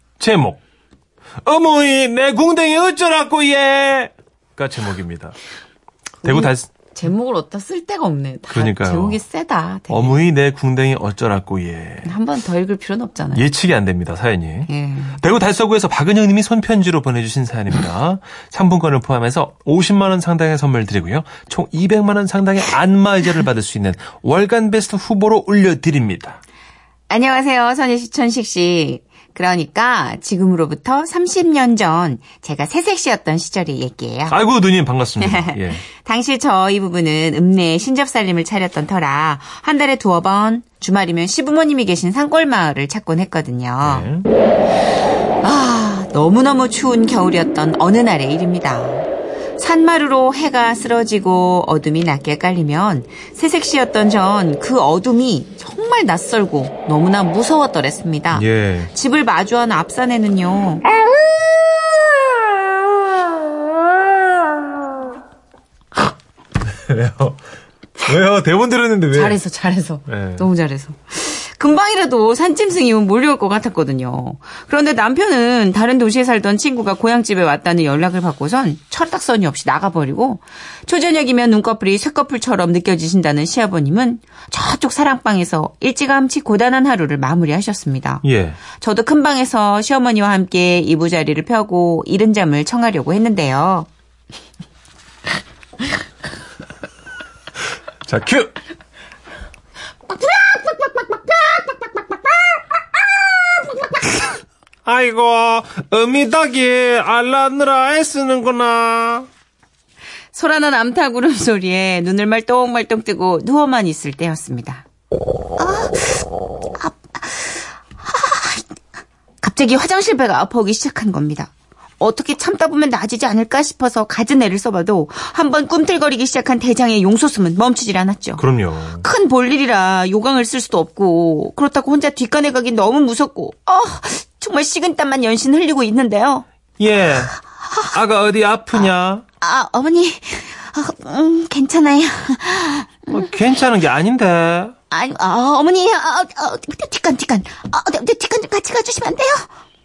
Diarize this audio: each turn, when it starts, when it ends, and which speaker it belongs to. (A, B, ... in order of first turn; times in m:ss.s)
0:00.2-0:00.6 A
0:01.4-0:05.4 A
0:06.2-0:06.7 A
0:06.2-0:10.2 B
0:08.5-0:09.2 A
0:09.9-0:12.1 A
0:12.0-0:13.4 B
0:13.3-0:26.4 A
0:14.7-0:15.2 B
0:27.1-0:34.4 B
0:34.3-0:35.8 A
0:35.2-0:44.1 B
0:43.8-0:44.3 A
0:45.4-1:00.8 B
0:58.3-0:58.9 A
1:06.6-1:07.4 A
1:08.0-1:09.4 A
1:09.1-1:28.2 B
1:10.1-1:10.5 A
1:28.2-1:28.6 A
1:28.8-1:33.9 B
1:38.0-1:38.5 A
1:44.8-1:49.3 A
1:50.3-1:54.8 B
1:55.6-1:58.7 B
1:59.4-2:08.4 B
2:08.4-2:09.0 A
2:08.9-2:16.4 B
2:16.8-2:19.2 A
2:19.4-2:23.2 B
2:23.1-2:24.7 A
2:24.9-2:29.5 B